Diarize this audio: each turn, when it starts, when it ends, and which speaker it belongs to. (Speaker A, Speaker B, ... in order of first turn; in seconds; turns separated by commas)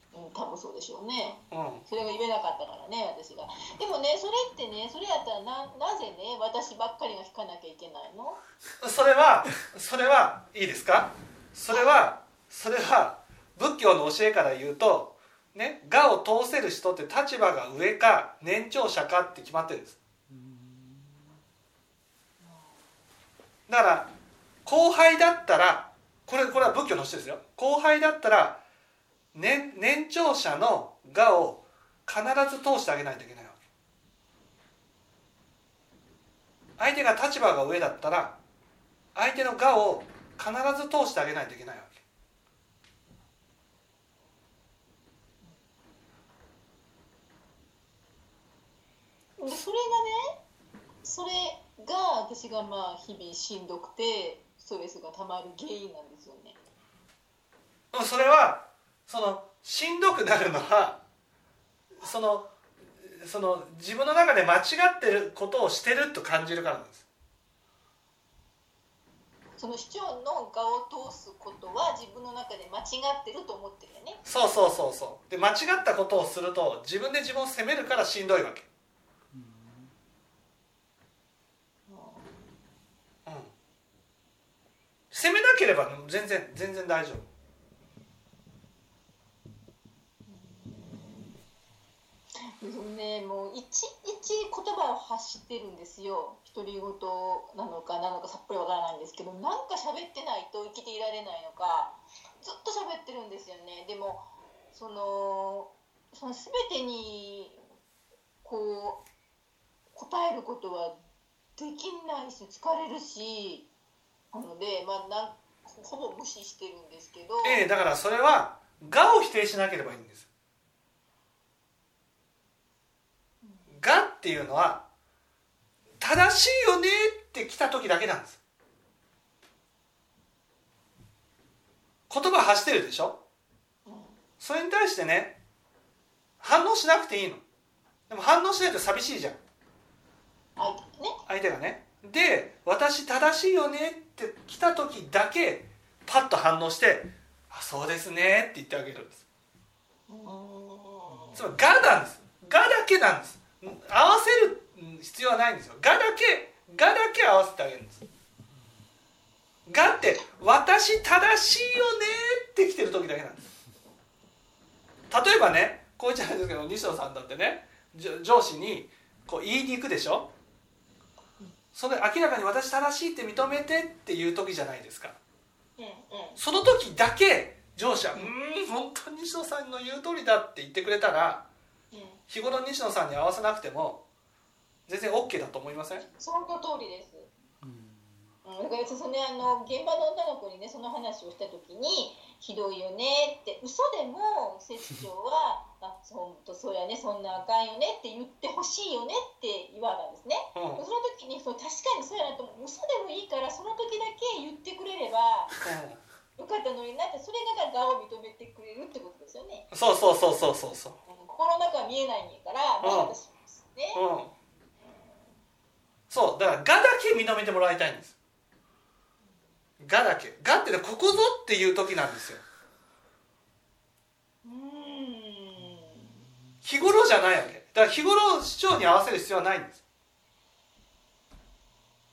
Speaker A: 0.1-8.4, Speaker B: 1.5-1.8, Speaker B: 8.8-20.0, Speaker B: 23.7-24.1, Speaker B: 24.6-28.6, Speaker B: 29.3-33.6, Speaker B: 36.8-38.4, Speaker B: 39.1-42.0, Speaker A: 49.4-50.3, Speaker A: 51.0-56.6, Speaker B: 57.9-61.0, Speaker B: 62.0-62.5, Speaker B: 63.0-67.0, Speaker A: 69.6-74.2, Speaker B: 74.2-78.7, Speaker A: 81.9-82.5, Speaker B: 83.2-83.5, Speaker B: 85.1-87.3, Speaker A: 90.3-91.3, Speaker A: 92.5-107.6, Speaker A: 108.4-109.0, Speaker A: 109.9-110.9, Speaker A: 111.5-113.7, Speaker A: 114.3-117.6, Speaker B: 117.4-120.2, Speaker B: 123.7-124.8, Speaker B: 126.0-128.4, Speaker B: 132.1-133.2, Speaker A: 133.8-134.2, Speaker B: 134.4-135.4, Speaker B: 136.4-137.4, Speaker B: 138.1-139.4, Speaker A: 140.6-141.2, Speaker B: 141.2-149.2, Speaker A: 150.1-151.4, Speaker B: 151.3-158.0, Speaker B: 159.7-163.5, Speaker B: 165.1-170.3, Speaker B: 171.7-175.2, Speaker A: 175.8-176.4, Speaker B: 176.4-181.4, Speaker A: 181.9-182.2, Speaker B: 182.3-184.0, Speaker B: 184.9-186.0, Speaker A: 186.0-187.3, Speaker A: 188.4-205.5, Speaker B: 200.5-200.8, Speaker B: 205.6-206.0, Speaker A: 206.3-209.7, Speaker B: 209.7-211.0, Speaker A: 211.1-214.0, Speaker B: 212.8-213.1, Speaker B: 213.9-214.3, Speaker A: 214.8-215.2, Speaker B: 216.1-218.1, Speaker B: 219.8-222.4, Speaker A: 224.4-226.2, Speaker B: 226.6-229.8